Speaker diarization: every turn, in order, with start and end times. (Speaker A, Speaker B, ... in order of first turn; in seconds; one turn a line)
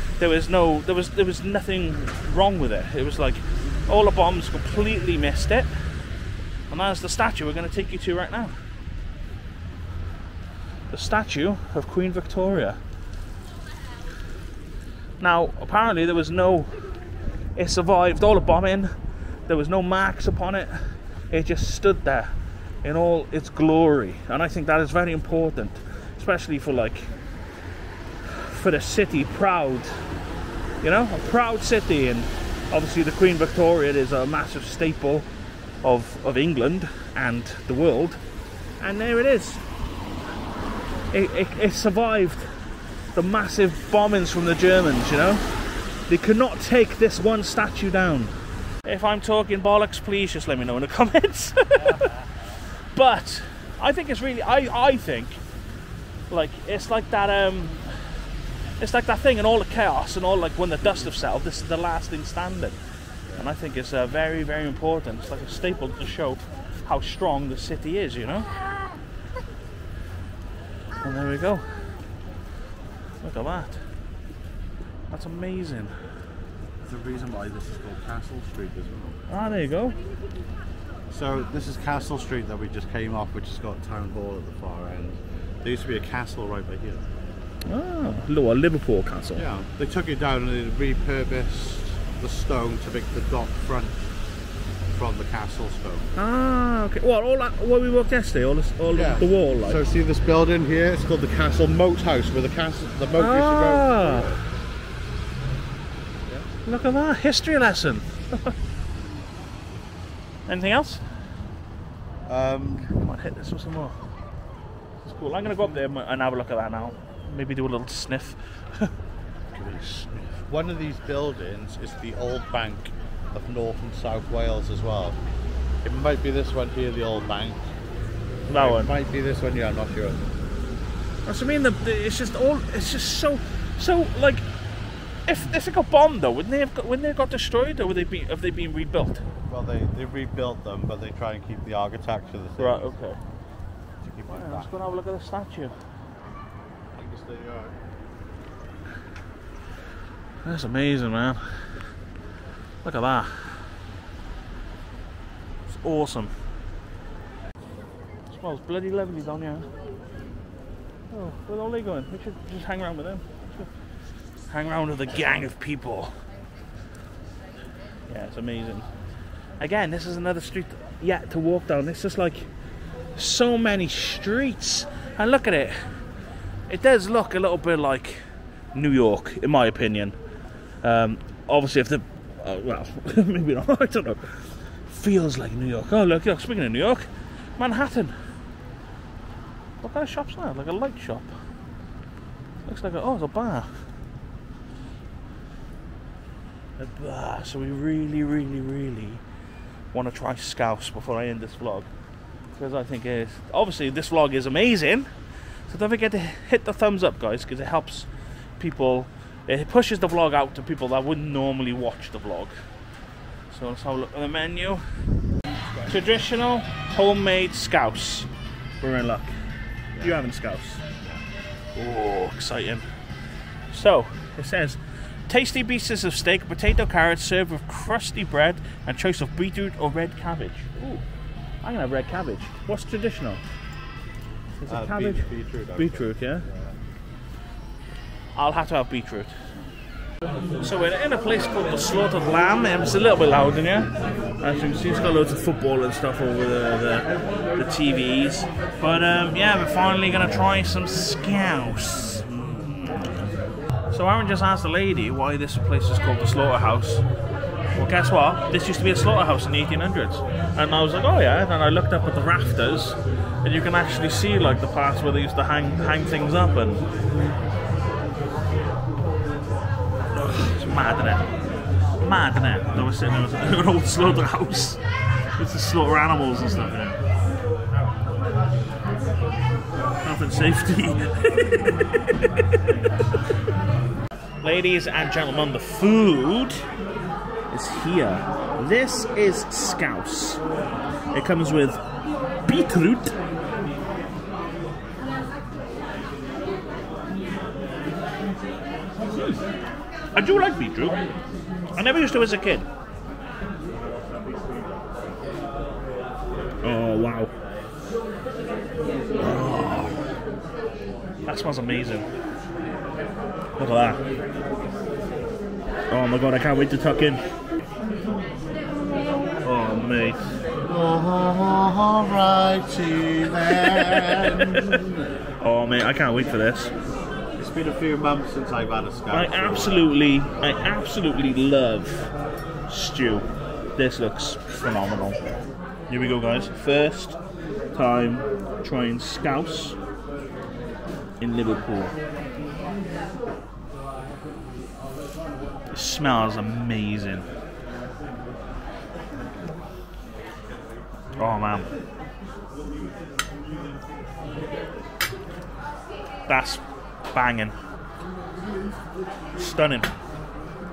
Speaker A: 0.2-5.7
Speaker A: 6.7-8.6
Speaker A: 10.9-12.8
Speaker A: 15.2-16.8
Speaker A: 17.6-18.9
Speaker A: 19.5-27.1
Speaker A: 28.2-30.0
Speaker A: 30.8-35.3
Speaker A: 35.8-38.2
Speaker A: 38.8-39.6
Speaker A: 41.1-42.5
Speaker A: 43.1-45.4
Speaker A: 46.1-52.1
Speaker B: 51.8-52.6
Speaker A: 52.9-55.4
Speaker A: 56.3-58.0
Speaker A: 58.8-62.8
Speaker B: 63.3-63.5
Speaker A: 63.4-68.5
Speaker A: 71.0-71.8
Speaker A: 73.2-73.8
Speaker A: 75.1-76.0
Speaker B: 76.8-79.2
Speaker A: 79.3-80.0
Speaker B: 81.1-87.0
Speaker A: 87.7-89.5
Speaker B: 89.3-94.0
Speaker B: 94.9-96.1
Speaker A: 96.2-99.8
Speaker B: 98.9-104.4
Speaker A: 103.2-104.3
Speaker A: 106.7-108.5
Speaker A: 110.5-111.0
Speaker B: 112.3-112.9
Speaker A: 112.9-114.0
Speaker A: 115.0-118.9
Speaker B: 119.5-125.2
Speaker B: 125.8-127.6
Speaker A: 128.5-128.9
Speaker B: 128.5-130.2
Speaker A: 131.2-134.4
Speaker A: 135.3-139.2
Speaker B: 139.5-142.9
Speaker A: 142.6-143.2
Speaker B: 144.0-144.8
Speaker A: 144.3-145.7
Speaker B: 146.9-147.8
Speaker A: 150.4-151.5
Speaker A: 152.8-153.7
Speaker A: 155.7-156.3
Speaker A: 158.3-159.7
Speaker A: 161.1-163.7
Speaker A: 164.5-166.2
Speaker A: 168.1-168.9
Speaker A: 169.6-172.5
Speaker A: 173.2-176.0
Speaker A: 176.7-178.2
Speaker A: 178.7-180.2
Speaker A: 180.8-188.2
Speaker A: 189.8-191.3
Speaker A: 192.7-193.7
Speaker A: 196.8-199.2
Speaker A: 199.9-201.9
Speaker A: 202.6-205.1
Speaker A: 205.7-212.6
Speaker A: 213.5-214.8
Speaker A: 215.9-218.3
Speaker A: 218.8-219.3
Speaker B: 219.9-220.2
Speaker A: 220.0-220.8
Speaker A: 221.8-222.9
Speaker A: 223.7-231.0
Speaker A: 231.6-233.4
Speaker A: 234.6-236.5
Speaker B: 234.7-236.8
Speaker A: 238.3-239.3
Speaker A: 240.6-243.9
Speaker A: 244.4-253.2
Speaker A: 253.9-257.0
Speaker A: 257.7-266.9
Speaker A: 270.2-271.3
Speaker A: 272.0-274.8
Speaker A: 275.4-277.0
Speaker A: 280.0-282.3
Speaker A: 284.4-286.6
Speaker A: 287.5-290.4
Speaker A: 291.1-291.8
Speaker A: 292.4-293.2
Speaker A: 299.1-299.4
Speaker A: 300.1-301.0
Speaker A: 301.8-302.7
Speaker B: 303.9-304.7
Speaker A: 306.6-307.3
Speaker A: 309.2-310.0
Speaker A: 311.3-312.1
Speaker A: 313.6-314.0
Speaker A: 315.9-317.2
Speaker A: 319.4-320.2
Speaker B: 320.6-324.9
Speaker A: 323.8-324.7
Speaker A: 325.4-326.7
Speaker B: 327.4-329.9
Speaker A: 329.1-332.0
Speaker A: 332.7-335.2
Speaker A: 335.9-337.2
Speaker A: 337.7-339.8
Speaker A: 341.2-342.0
Speaker A: 345.7-347.3
Speaker A: 351.1-351.7
Speaker A: 356.3-357.6
Speaker A: 359.4-359.9